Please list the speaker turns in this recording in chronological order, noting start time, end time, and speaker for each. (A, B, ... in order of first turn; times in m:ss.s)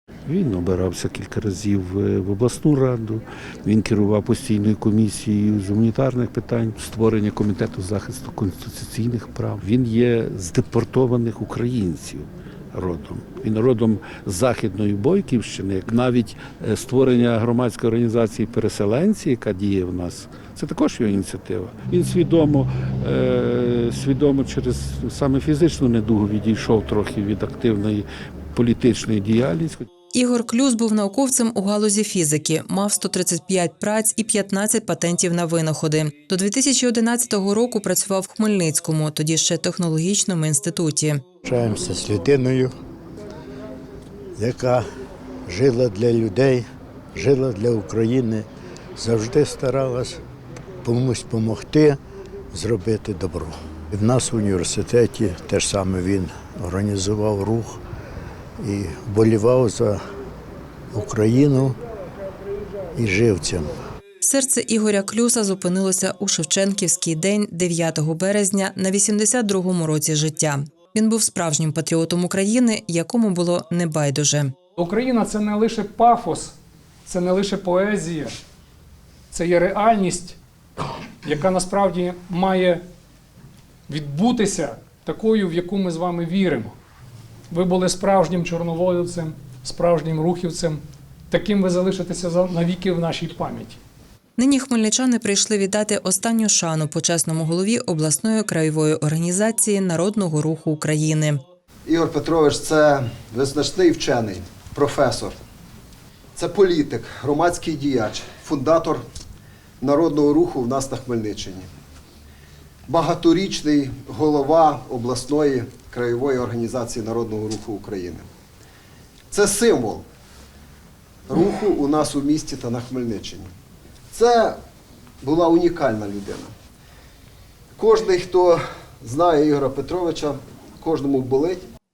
0:00.2-0:29.8 A
0:30.1-0:41.2 B
0:41.4-0:42.7 C
0:44.4-0:44.8 C
0:45.5-0:48.4 C
0:49.0-0:50.2 C
0:50.8-0:52.0 C
0:52.5-0:57.8 C
0:58.6-1:00.0 C
1:00.9-1:01.8 C
1:02.9-1:03.7 C
1:04.2-1:14.5 B
1:14.8-1:16.5 D
1:17.0-1:18.3 D
1:19.3-1:20.4 D
1:21.2-1:22.8 D
1:23.9-1:26.7 D
1:27.5-1:30.8 D
1:31.3-1:33.8 D
1:34.4-1:41.4 B
1:41.8-1:45.4 E
1:46.3-1:49.0 E
1:49.8-1:51.7 E
1:52.9-1:58.2 E
1:59.3-2:00.0 E
2:01.3-2:03.5 E
2:04.1-2:04.6 E
2:05.2-2:06.5 E
2:07.8-2:11.6 E